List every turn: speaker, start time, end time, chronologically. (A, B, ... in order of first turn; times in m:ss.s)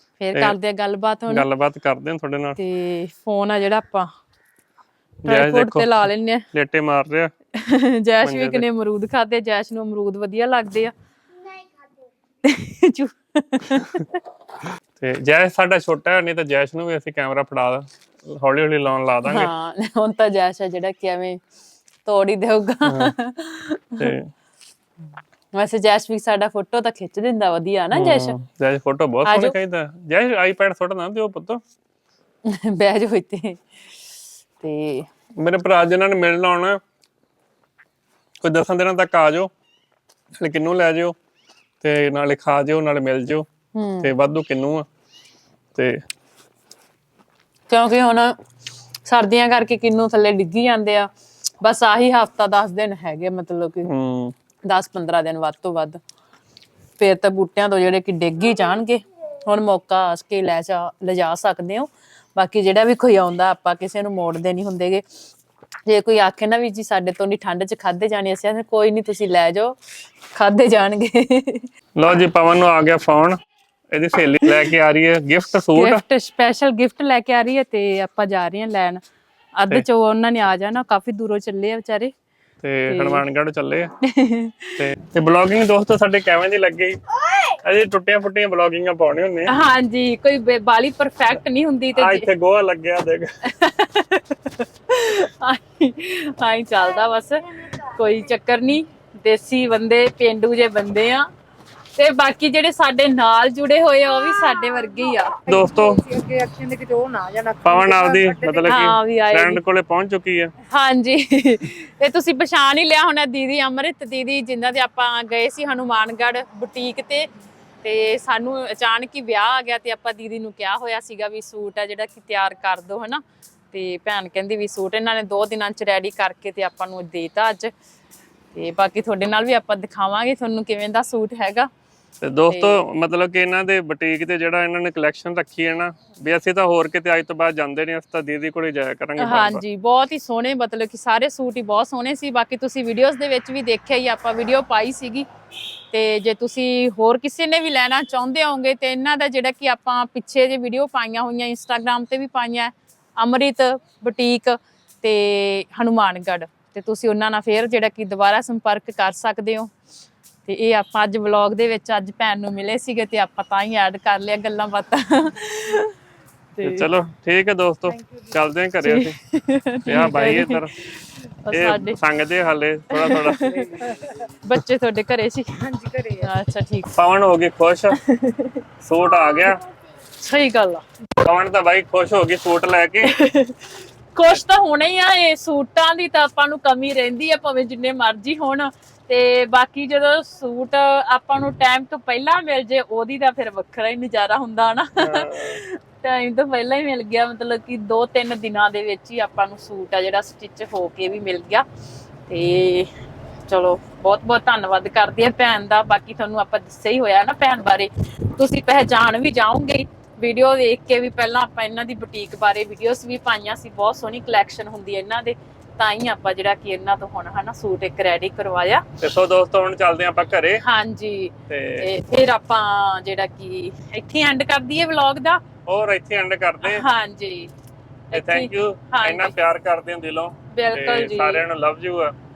0:00.2-0:01.4 A
0:01.3-0:02.6 B
0:02.6-0:04.1 A
0:05.2-0:07.3 B
0:05.2-0:06.4 A
0:07.5-0:10.9 A
0:08.2-0:08.6 B
0:12.4-0:14.2 A
0:15.0-0:19.5 B
0:19.2-0:21.4 A
0:22.0-0:24.1 A
0:22.8-0:23.1 B
0:24.0-0:24.3 B
0:25.5-0:28.4 A
0:27.9-0:31.6 B
0:29.2-0:29.5 A
0:32.4-0:33.6 A
0:34.6-0:35.1 A
0:35.4-0:36.8 B
0:38.4-0:39.5 B
0:40.4-0:41.2 B
0:41.8-0:43.4 B
0:43.7-0:44.1 A
0:44.0-0:44.8 B
0:45.7-0:46.0 B
0:47.7-0:48.4 A
0:49.0-0:51.1 A
0:51.6-0:53.9 A
0:53.8-0:54.3 B
0:54.6-0:56.0 A
0:57.0-1:05.0 A
1:05.9-1:09.8 A
1:10.3-1:11.7 A
1:12.0-1:13.4 B
1:13.9-1:16.0 B
1:15.7-1:19.0 A
1:19.6-1:22.1 A
1:22.6-1:23.9 B
1:22.9-1:23.2 A
1:24.1-1:24.8 A
1:24.8-1:29.5 B
1:29.5-1:32.3 A
1:31.9-1:33.3 B
1:33.4-1:41.3 A
1:42.0-1:45.4 A
1:45.4-1:46.0 B
1:45.5-1:48.7 C
1:47.6-1:50.5 B
1:48.6-1:49.6 A
1:50.7-1:57.3 A
1:57.8-2:03.2 A
2:03.7-2:07.7 A
2:08.5-2:11.7 A
2:12.2-2:19.6 B
2:12.5-2:12.8 A
2:19.2-2:25.3 A
2:25.9-2:39.7 A
2:40.4-2:45.9 A
2:46.6-2:46.9 A
2:46.6-2:49.2 B
2:48.8-2:50.6 A
2:49.8-2:50.8 B
2:51.4-2:52.0 A
2:51.5-2:53.9 B
2:52.9-2:56.9 A
2:55.7-2:56.1 C
2:56.9-2:58.0 B
2:58.0-2:58.6 A
2:58.8-2:59.6 B
3:00.2-3:00.8 A
3:01.2-3:03.1 B
3:03.0-3:03.6 A
3:04.1-3:21.6 A
3:15.0-3:15.6 B
3:22.3-3:22.9 A
3:23.5-3:38.8 A
3:39.0-3:40.6 B
3:40.6-3:45.4 A
3:41.5-3:41.9 B
3:45.7-3:46.8 B
3:46.6-3:47.5 A
3:48.1-3:49.3 A
3:48.1-3:52.1 B
3:50.5-3:51.4 A